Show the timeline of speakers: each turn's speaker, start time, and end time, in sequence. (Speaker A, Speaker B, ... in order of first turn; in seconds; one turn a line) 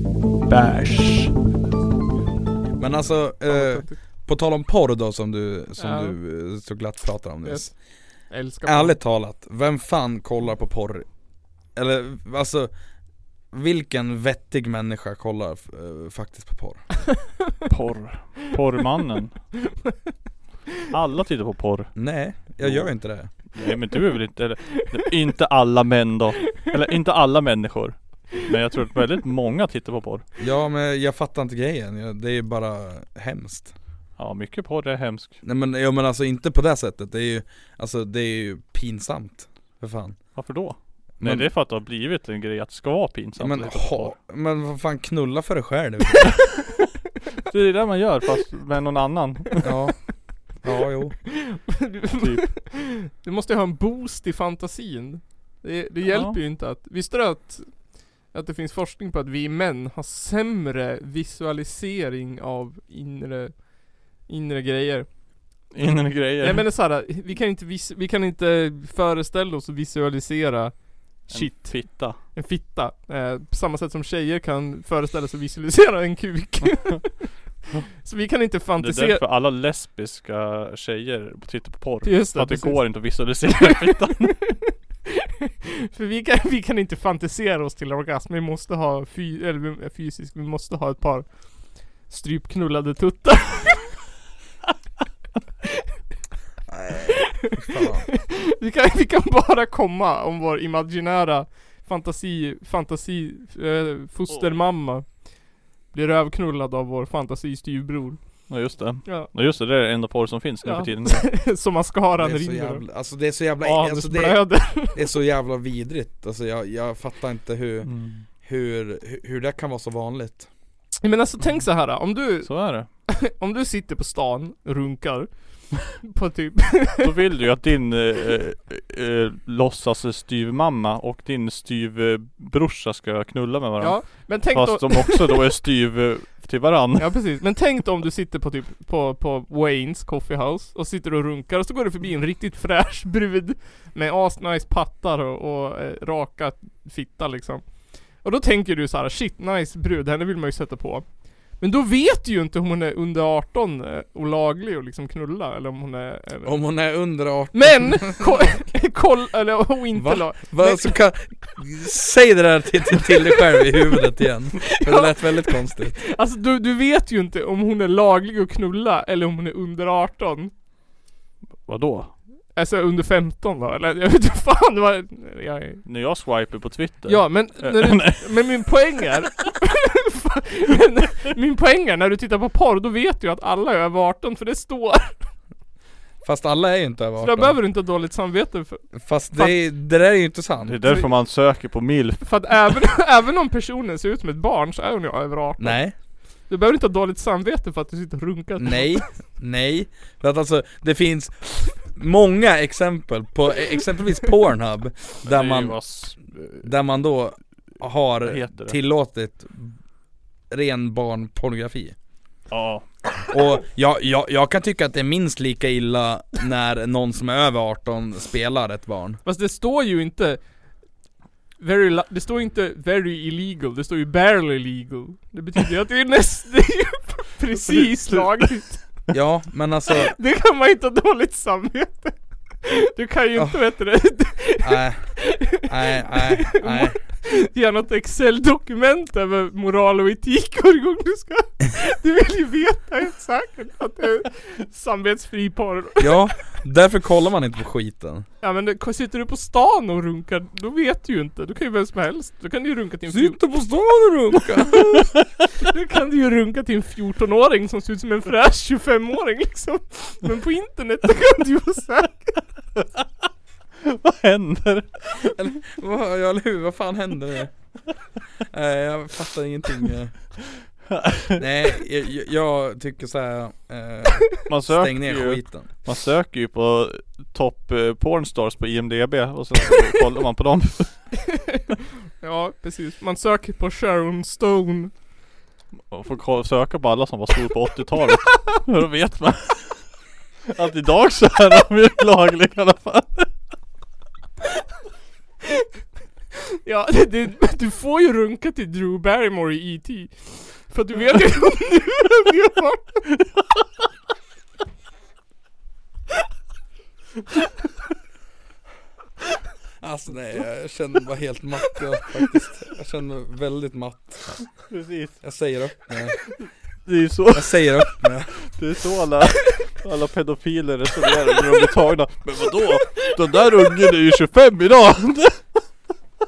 Speaker A: 0.5-1.3
Speaker B: 2.8-7.8
Speaker C: 3.5-4.0
Speaker C: 5.8-6.1
Speaker C: 7.4-7.7
Speaker C: 8.3-9.0
Speaker B: 8.6-11.1
Speaker B: 11.7-12.7
Speaker B: 13.5-16.9
Speaker A: 17.7-19.4
Speaker A: 20.9-30.2
Speaker B: 21.9-23.3
Speaker B: 30.4-33.7
Speaker A: 34.2-35.4
Speaker B: 35.4-40.4
Speaker A: 40.3-44.1
Speaker B: 41.2-41.5
Speaker B: 43.4-46.5
Speaker A: 47.5-49.7
Speaker B: 49.6-51.2
Speaker C: 51.3-65.1
Speaker A: 52.2-52.5
Speaker A: 56.1-56.4
Speaker A: 65.7-66.7
Speaker C: 66.4-77.3
Speaker A: 71.3-72.2
Speaker C: 78.0-79.2
Speaker A: 78.8-84.5
Speaker C: 82.0-83.2
Speaker C: 84.4-84.7
Speaker C: 85.8-94.0
Speaker B: 96.7-98.1
Speaker C: 97.4-108.2
Speaker A: 108.5-111.3
Speaker C: 109.0-109.3
Speaker C: 110.6-112.8
Speaker B: 112.2-120.5
Speaker C: 113.6-115.1
Speaker A: 117.8-118.2
Speaker C: 121.0-127.1
Speaker A: 122.4-122.9
Speaker A: 127.0-137.2
Speaker C: 133.8-135.4
Speaker C: 137.0-156.5
Speaker B: 156.4-158.3
Speaker C: 157.5-161.0
Speaker B: 159.9-166.0
Speaker C: 164.7-170.5
Speaker A: 171.6-172.1
Speaker C: 172.5-175.8
Speaker A: 175.8-178.7
Speaker C: 177.1-185.2
Speaker B: 186.2-187.6
Speaker C: 187.2-189.6
Speaker B: 188.9-190.8
Speaker A: 190.6-192.6
Speaker C: 192.2-195.8
Speaker B: 195.6-195.9
Speaker C: 196.5-199.0
Speaker B: 198.6-205.8
Speaker A: 205.2-206.7
Speaker B: 206.6-209.8
Speaker A: 208.2-208.8
Speaker B: 210.5-211.9
Speaker A: 212.5-212.9
Speaker B: 213.3-219.2
Speaker C: 219.2-220.4
Speaker C: 221.6-228.8
Speaker B: 229.1-230.2
Speaker C: 229.9-246.2
Speaker B: 233.3-233.7
Speaker B: 234.6-237.0
Speaker B: 246.0-248.3
Speaker C: 248.4-253.4
Speaker B: 253.1-255.1
Speaker C: 255.6-262.4
Speaker A: 263.8-265.4
Speaker B: 265.4-267.5
Speaker B: 268.5-270.4
Speaker A: 270.9-271.4
Speaker B: 271.4-275.7
Speaker A: 274.5-281.3
Speaker C: 282.2-284.9
Speaker A: 285.9-289.9
Speaker A: 290.5-293.3
Speaker C: 296.6-303.1
Speaker B: 309.8-314.5
Speaker A: 314.7-315.2
Speaker B: 315.2-316.2
Speaker A: 316.9-325.4
Speaker B: 317.3-318.4